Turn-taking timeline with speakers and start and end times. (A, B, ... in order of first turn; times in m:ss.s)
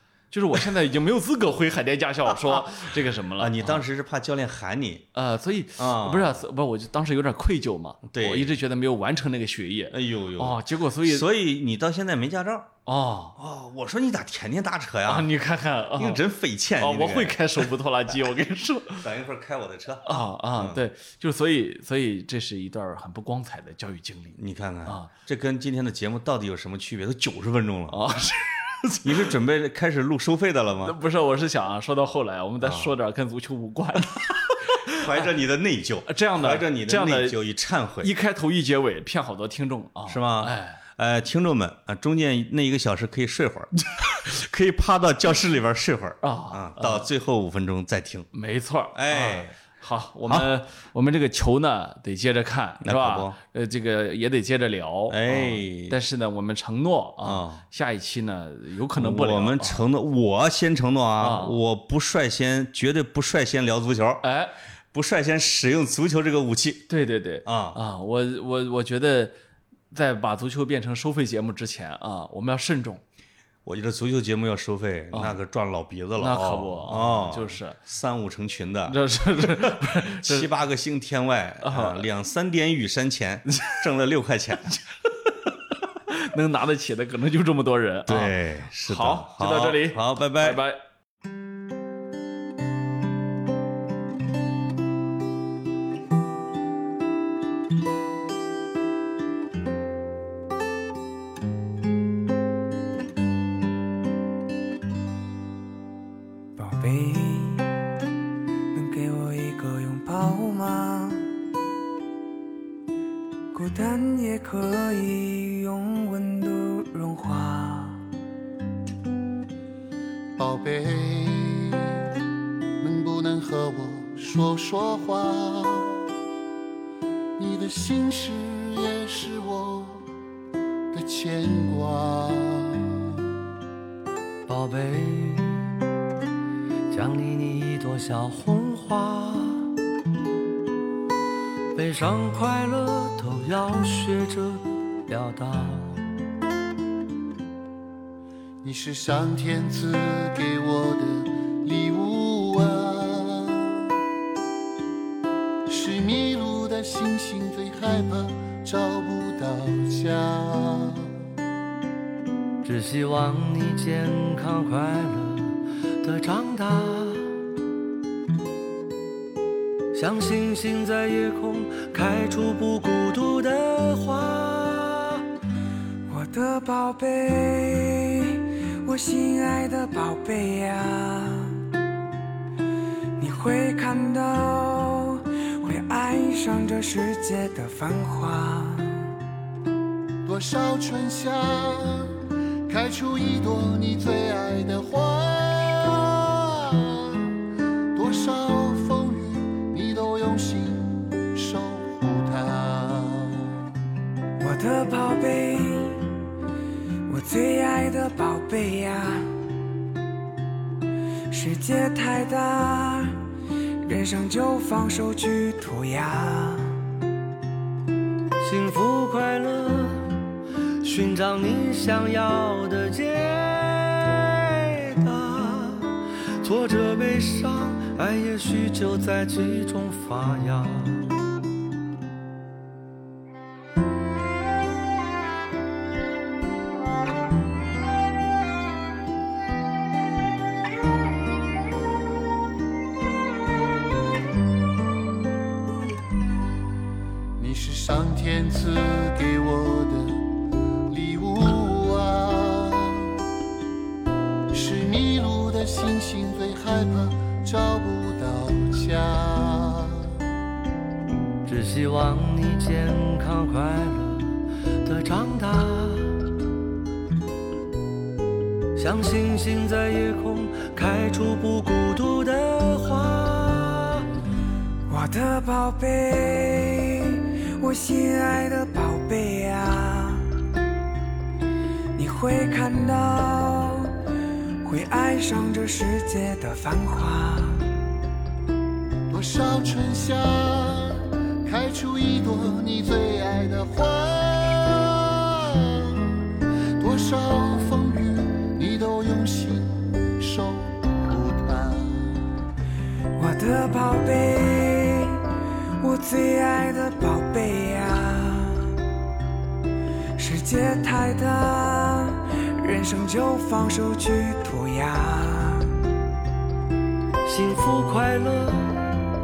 0:00.3-0:03.8 A
0:03.4-0:05.1 B
0:05.1-0:11.3 A
0:05.8-0:06.4 B
0:08.1-0:08.5 B
0:09.9-0:12.7 B
0:12.8-0:13.4 A
0:13.4-0:15.3 B
0:15.0-0:16.2 A
0:15.9-0:17.7 B
0:16.8-0:19.1 A
0:19.0-0:20.8 B
0:20.0-0:25.1 A
0:24.4-0:28.0 B
0:27.9-0:29.3 A
0:29.0-0:31.0 B
0:30.8-0:35.3 A
0:32.6-0:32.9 B
0:34.9-0:38.1 B
0:36.0-0:37.4 A
0:38.0-0:40.8 A
0:40.1-0:48.3 B
0:46.2-0:47.1 A
0:48.3-0:59.8 A
0:48.9-0:49.6 B
0:52.8-0:53.4 B
0:55.1-0:56.0 B
0:57.2-0:57.6 B
0:59.0-1:04.2 B
1:01.2-1:01.6 A
1:04.2-1:04.5 A
1:04.9-1:06.9 B
1:06.9-1:09.3 A
1:07.4-1:07.8 B
1:09.9-1:13.0 A
1:13.6-1:24.8 B
1:15.1-1:15.4 A
1:16.2-1:17.8 A
1:18.9-1:20.5 A
1:21.6-1:22.1 A
1:25.9-1:30.8 A
1:28.0-1:30.6 B
1:46.6-1:47.7 C
1:48.7-1:51.3 C
1:53.5-1:58.0 C
2:00.4-2:02.1 D
2:02.8-2:06.1 D
2:07.4-2:10.1 D
2:10.9-2:13.2 D
2:14.5-2:15.8 E
2:16.9-2:19.7 E
2:21.7-2:26.1 E
2:28.6-2:33.9 D
2:35.7-2:41.2 D
2:42.6-2:47.4 E
2:49.9-2:55.2 E
2:56.1-3:01.7 C
3:03.2-3:09.1 C
3:10.2-3:17.4 D
3:17.9-3:23.6 D
3:24.4-3:26.2 C
3:27.1-3:29.3 C
3:31.3-3:33.2 C
3:33.8-3:36.8 C
3:38.4-3:40.2 E
3:40.8-3:51.1 E
4:07.4-4:10.3 D
4:10.9-4:13.2 D
4:14.5-4:20.2 D
4:21.4-4:26.3 E
4:28.8-4:34.0 E
4:34.9-4:40.3 C
4:42.0-4:43.9 C
4:44.6-4:47.7 C
4:49.1-5:02.2 D
5:03.2-5:05.3 C
5:05.8-5:08.7 C
5:10.2-5:15.8 C
5:17.2-5:19.0 E